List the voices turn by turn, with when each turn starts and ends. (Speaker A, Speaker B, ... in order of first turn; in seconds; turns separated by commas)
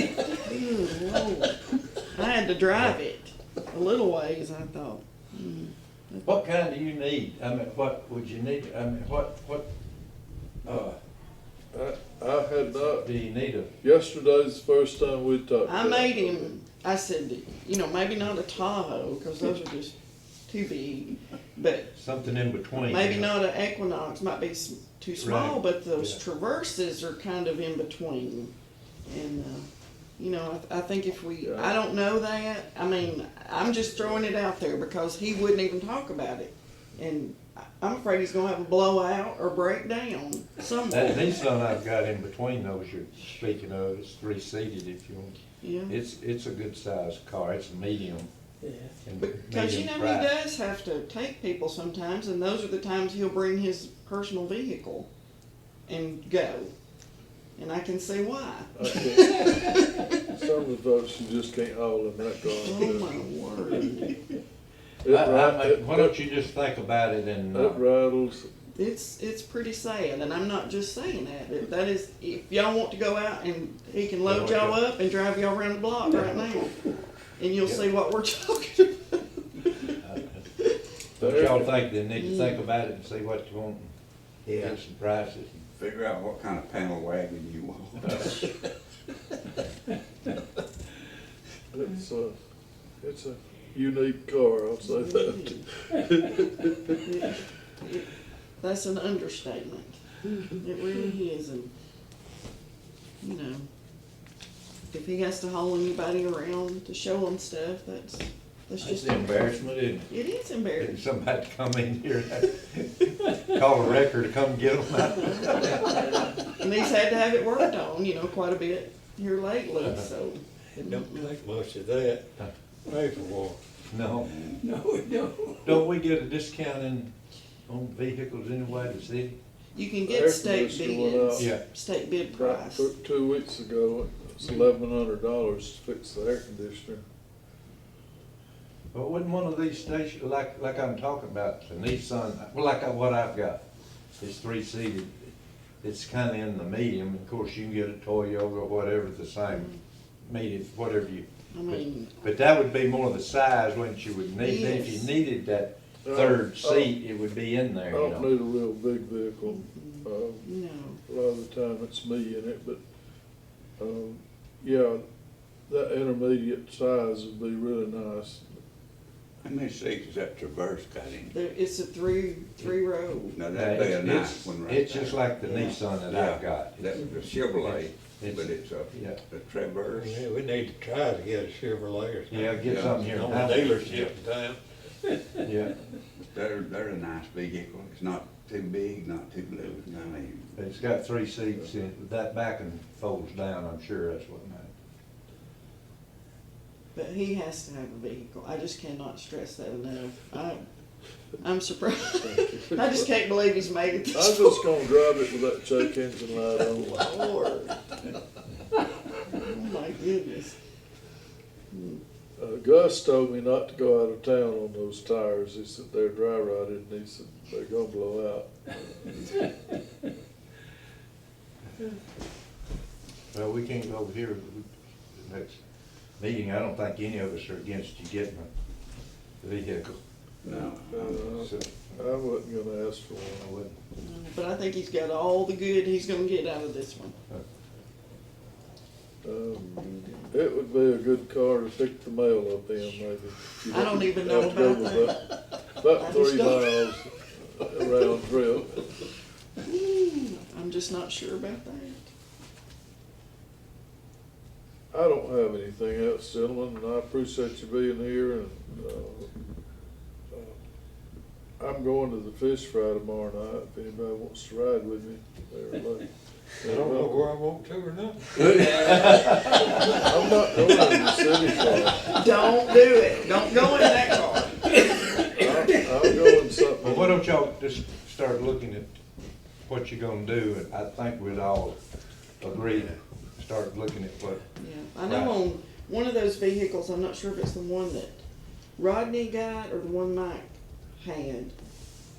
Speaker A: 0.4-6.4, Speaker B: 6.2-9.7, Speaker B: 10.7-11.0, Speaker C: 11.7-13.1, Speaker B: 12.9-13.7, Speaker C: 13.8-16.5, Speaker A: 15.7-19.9, Speaker A: 20.5-21.9, Speaker B: 21.9-23.3, Speaker A: 22.7-28.5, Speaker B: 25.2-26.2, Speaker A: 29.1-41.2, Speaker C: 31.4-31.8, Speaker B: 40.9-48.3, Speaker A: 45.6-46.0, Speaker B: 49.0-50.3, Speaker A: 49.2-55.1, Speaker A: 55.9-56.7, Speaker A: 57.6-60.1, Speaker C: 58.8-63.2, Speaker A: 62.6-64.2, Speaker C: 65.0-66.2, Speaker B: 65.1-67.8, Speaker C: 67.5-68.5, Speaker A: 68.8-79.9, Speaker B: 74.3-74.8, Speaker B: 80.0-80.5, Speaker C: 81.2-81.7, Speaker B: 81.2-83.9, Speaker A: 82.2-82.6, Speaker D: 84.5-84.8, Speaker B: 84.5-85.6, Speaker E: 85.8-88.5, Speaker C: 91.7-92.3, Speaker C: 93.0-96.9, Speaker A: 94.8-95.7, Speaker A: 97.1-98.1, Speaker A: 98.6-101.7, Speaker A: 103.2-103.7, Speaker A: 104.9-109.5, Speaker B: 108.8-110.1, Speaker A: 110.1-111.0, Speaker B: 110.8-116.2, Speaker A: 115.2-121.3, Speaker D: 120.8-122.3, Speaker D: 122.9-123.6, Speaker B: 123.9-124.3, Speaker E: 124.2-124.6, Speaker D: 124.6-125.8, Speaker B: 125.6-127.1, Speaker B: 127.7-129.4, Speaker A: 129.8-132.9, Speaker C: 130.1-131.5, Speaker C: 132.3-137.0, Speaker A: 134.4-134.7, Speaker B: 138.9-143.6, Speaker B: 144.2-145.3, Speaker B: 145.8-149.7, Speaker A: 149.5-149.8, Speaker B: 150.3-158.3, Speaker A: 151.5-152.2, Speaker A: 154.4-155.1, Speaker C: 156.0-156.9, Speaker C: 157.9-160.5, Speaker A: 159.4-161.0, Speaker C: 161.1-162.8, Speaker C: 163.8-165.0, Speaker C: 165.7-168.5, Speaker E: 169.4-171.3, Speaker A: 171.3-173.4, Speaker E: 173.3-175.2, Speaker B: 173.5-179.2, Speaker A: 175.4-175.8, Speaker E: 176.1-180.2, Speaker D: 179.9-185.4, Speaker B: 182.3-184.1, Speaker E: 182.6-183.3, Speaker B: 185.4-185.8, Speaker E: 186.3-190.6, Speaker B: 190.6-194.7, Speaker A: 196.9-200.6, Speaker A: 201.4-204.8, Speaker C: 202.2-203.1, Speaker C: 204.1-207.2, Speaker A: 206.6-207.8, Speaker A: 209.3-210.6, Speaker A: 211.7-212.0, Speaker C: 212.4-219.1, Speaker B: 223.3-225.6, Speaker B: 226.2-228.5, Speaker B: 229.4-230.0, Speaker E: 230.4-231.0, Speaker C: 230.5-233.6, Speaker B: 231.1-232.1, Speaker B: 233.4-233.8, Speaker A: 234.0-237.2, Speaker C: 239.2-248.9, Speaker A: 243.7-245.4, Speaker A: 246.0-247.0, Speaker A: 249.6-252.1, Speaker C: 254.9-259.3, Speaker C: 260.3-260.6, Speaker C: 261.6-266.1, Speaker C: 266.6-267.3, Speaker D: 266.6-271.4, Speaker B: 268.7-269.8, Speaker C: 269.9-272.2, Speaker A: 272.1-275.1, Speaker D: 274.9-275.5, Speaker C: 275.3-277.2, Speaker B: 276.8-278.9, Speaker B: 279.7-281.8, Speaker B: 282.4-284.4, Speaker A: 284.6-288.2, Speaker B: 285.1-285.3, Speaker A: 288.8-290.5, Speaker A: 291.0-291.6